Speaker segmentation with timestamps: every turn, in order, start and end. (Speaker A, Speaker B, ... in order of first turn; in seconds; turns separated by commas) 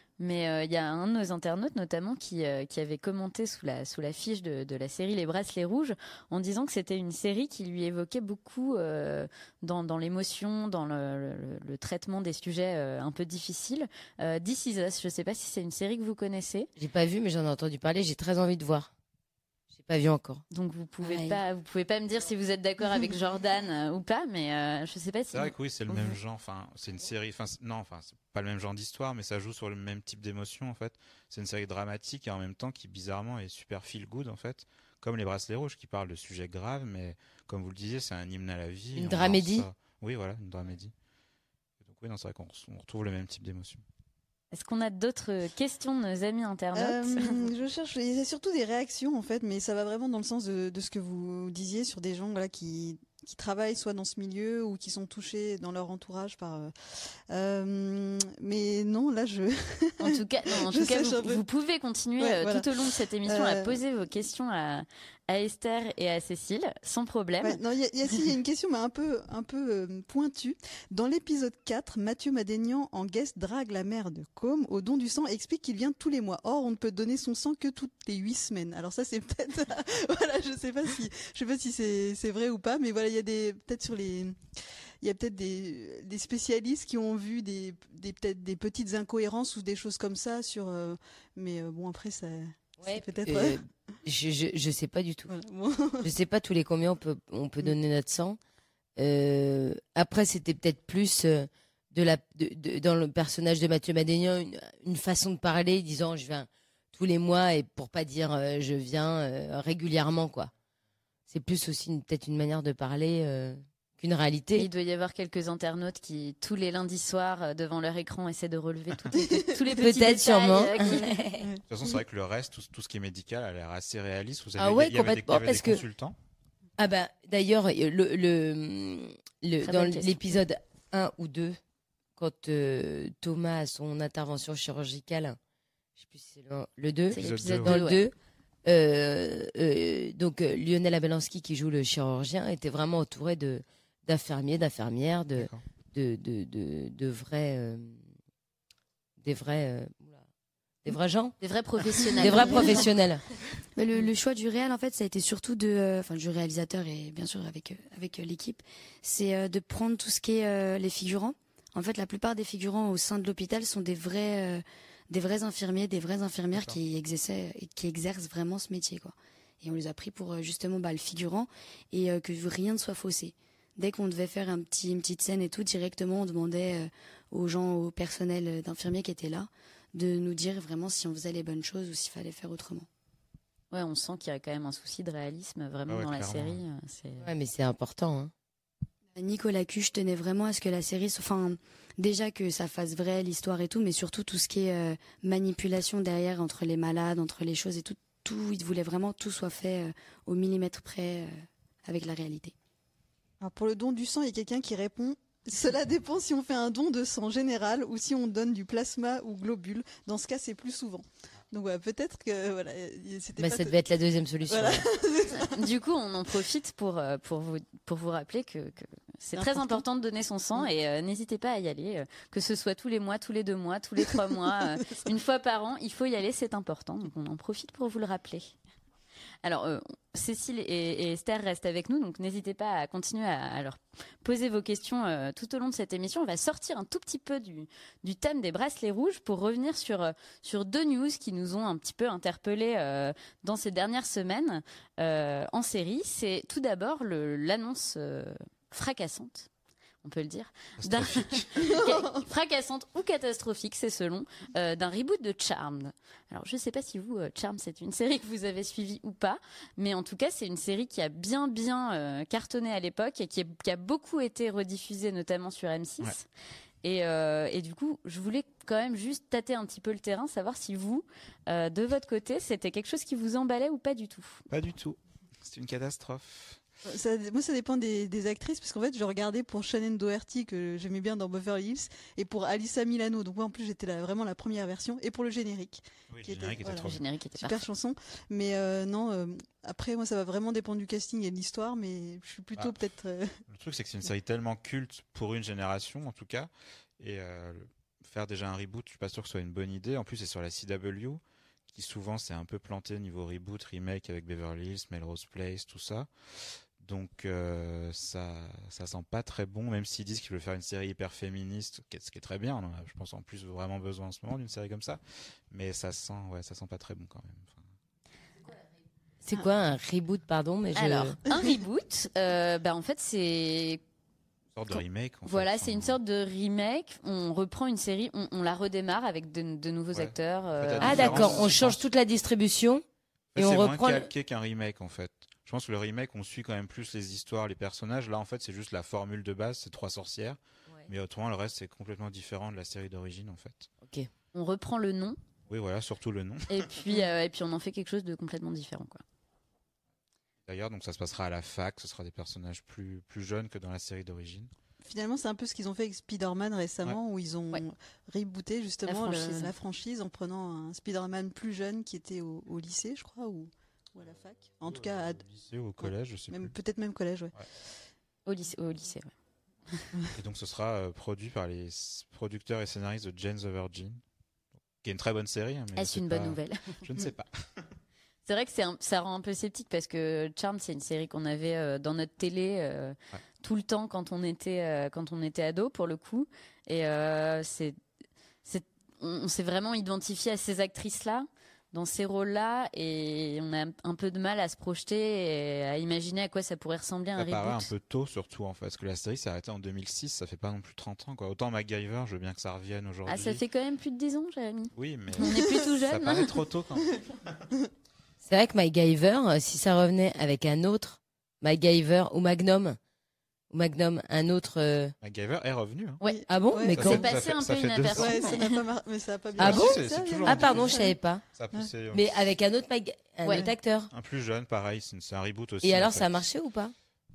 Speaker A: 0.2-16.7, Speaker B: 16.8-18.9, Speaker B: 19.7-20.4, Speaker A: 20.5-25.5, Speaker C: 21.0-21.4, Speaker D: 25.3-40.9, Speaker B: 39.0-39.7, Speaker D: 41.8-43.8, Speaker A: 44.5-47.5, Speaker E: 46.8-61.4, Speaker A: 60.0-67.6, Speaker E: 62.2-63.8, Speaker E: 67.4-93.6, Speaker B: 92.8-95.3, Speaker E: 95.3-96.1, Speaker B: 96.0-98.4, Speaker B: 99.0-110.5, Speaker B: 111.3-114.7, Speaker A: 114.6-121.5, Speaker E: 119.2-119.5, Speaker B: 119.6-121.1, Speaker E: 121.4-121.6, Speaker D: 121.7-126.2, Speaker B: 124.6-125.8, Speaker B: 126.8-131.6, Speaker A: 129.6-130.2, Speaker B: 132.2-135.4, Speaker B: 136.0-138.1, Speaker A: 137.1-138.0, Speaker D: 137.2-137.8, Speaker B: 138.7-148.1, Speaker D: 145.4-145.6, Speaker B: 149.2-150.2, Speaker B: 150.8-151.4, Speaker A: 151.4-152.9, Speaker B: 152.2-153.2, Speaker C: 153.8-182.9, Speaker D: 166.5-166.8, Speaker A: 183.7-187.3, Speaker D: 185.9-186.6, Speaker B: 187.2-188.3, Speaker C: 189.2-202.5, Speaker E: 203.4-213.8, Speaker B: 213.4-214.9, Speaker E: 214.5-215.6, Speaker A: 215.4-228.6, Speaker E: 219.3-219.8, Speaker A: 229.4-249.5, Speaker A: 250.0-266.3, Speaker D: 250.8-251.5, Speaker E: 251.6-252.0, Speaker A: 266.8-274.5, Speaker D: 274.5-276.6, Speaker E: 276.9-293.4, Speaker D: 286.1-287.0, Speaker A: 286.7-287.6, Speaker D: 293.5-317.7, Speaker B: 319.2-321.2, Speaker A: 320.8-323.8, Speaker D: 324.5-326.0, Speaker A: 324.7-331.5, Speaker D: 329.9-331.8, Speaker B: 330.8-332.8, Speaker D: 333.3-343.7, Speaker B: 333.4-334.1, Speaker B: 343.8-344.1, Speaker A: 344.3-345.2, Speaker D: 345.5-346.7, Speaker A: 346.5-349.0, Speaker D: 350.5-354.5, Speaker E: 354.8-365.2, Speaker A: 358.9-359.5, Speaker D: 364.6-366.5, Speaker E: 365.8-367.3, Speaker A: 368.3-369.1, Speaker D: 370.1-374.0, Speaker D: 374.8-377.7, Speaker A: 375.8-376.8, Speaker A: 378.2-387.8, Speaker A: 388.4-397.7, Speaker D: 397.2-403.4, Speaker A: 403.1-406.4, Speaker D: 404.8-407.5, Speaker B: 408.2-412.8, Speaker B: 413.5-414.9, Speaker D: 415.0-416.0, Speaker A: 416.0-418.6, Speaker E: 416.0-416.9, Speaker B: 416.3-417.1, Speaker D: 416.8-418.5, Speaker E: 417.9-420.9, Speaker D: 419.4-422.1, Speaker B: 419.4-421.2, Speaker B: 421.9-423.9, Speaker A: 423.2-423.5, Speaker D: 423.9-426.2, Speaker B: 425.6-426.7